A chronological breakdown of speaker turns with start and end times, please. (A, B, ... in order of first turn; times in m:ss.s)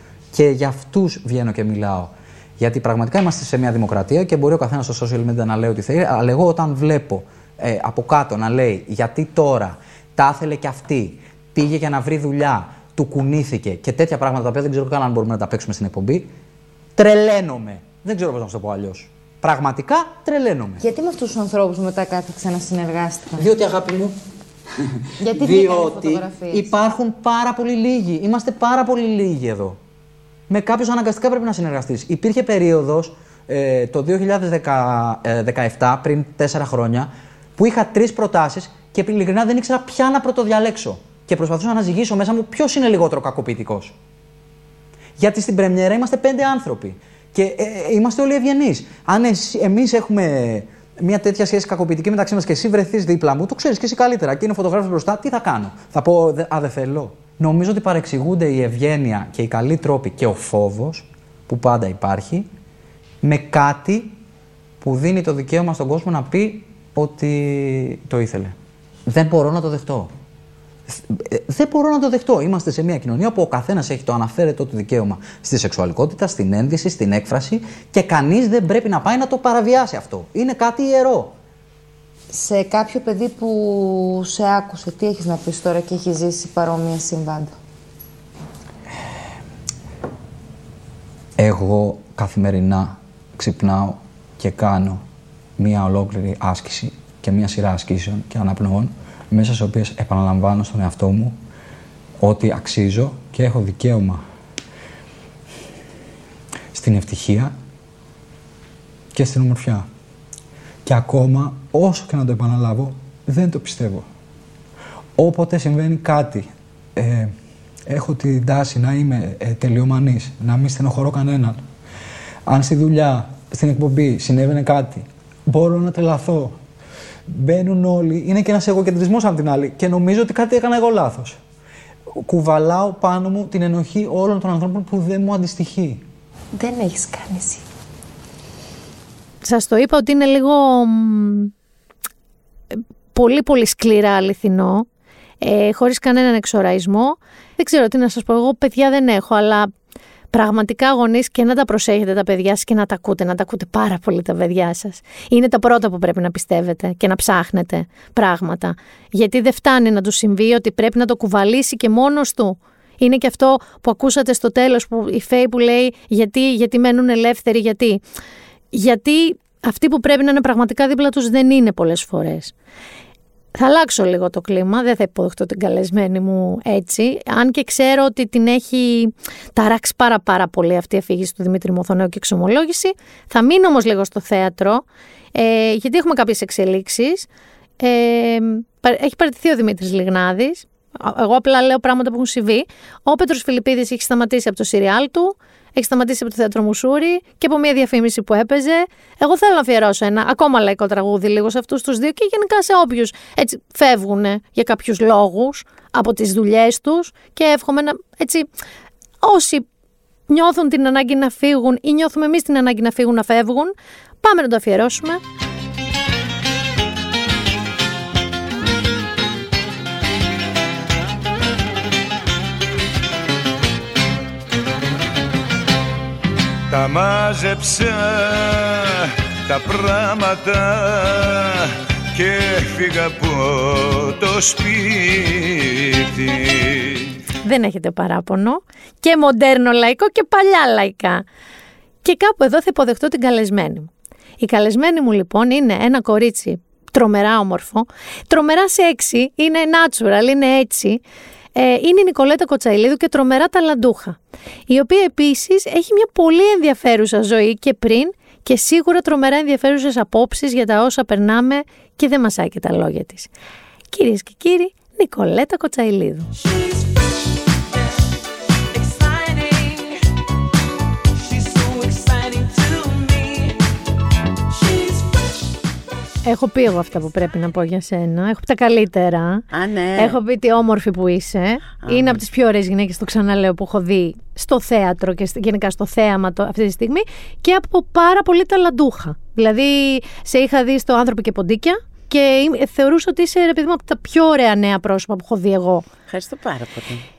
0:00.3-0:16.3 A
0:17.0-0:20.8 A
0:20.8-0:23.5 B
0:23.4-0:24.2 A
0:25.2-0:26.7 B
0:25.3-0:29.8 A
0:30.5-0:43.9 A
0:45.2-1:02.5 A
1:03.2-1:04.2 A
1:04.8-1:08.6 A
1:09.1-1:10.1 A
1:10.9-1:21.3 A
1:22.3-1:27.6 B
1:31.4-1:35.0 A
1:35.6-1:41.4 A
1:42.2-1:44.2 A
1:46.7-1:47.5 A
1:49.1-1:49.9 A
1:50.8-1:54.1 A
1:55.2-1:57.3 A
1:57.8-2:01.6 A
2:02.5-2:06.6 A
2:07.3-2:11.4 A
2:12.1-2:16.0 A
2:16.5-2:17.6 B
2:19.4-2:21.5 C
2:22.7-2:24.9 C
2:25.4-2:29.7 C
2:30.3-2:48.0 C
2:48.7-2:52.5 C
2:53.5-3:07.3 C
3:07.8-3:28.5 C
3:29.2-3:29.6 C
3:30.3-3:35.2 C
3:46.7-3:57.0 D
3:57.4-4:01.2 C
4:02.0-4:11.0 C
4:11.6-4:23.3 C
4:23.9-4:26.3 C
4:36.2-4:55.9 C
4:39.5-4:40.2 E
4:41.8-4:42.2 E
4:56.1-4:57.0 E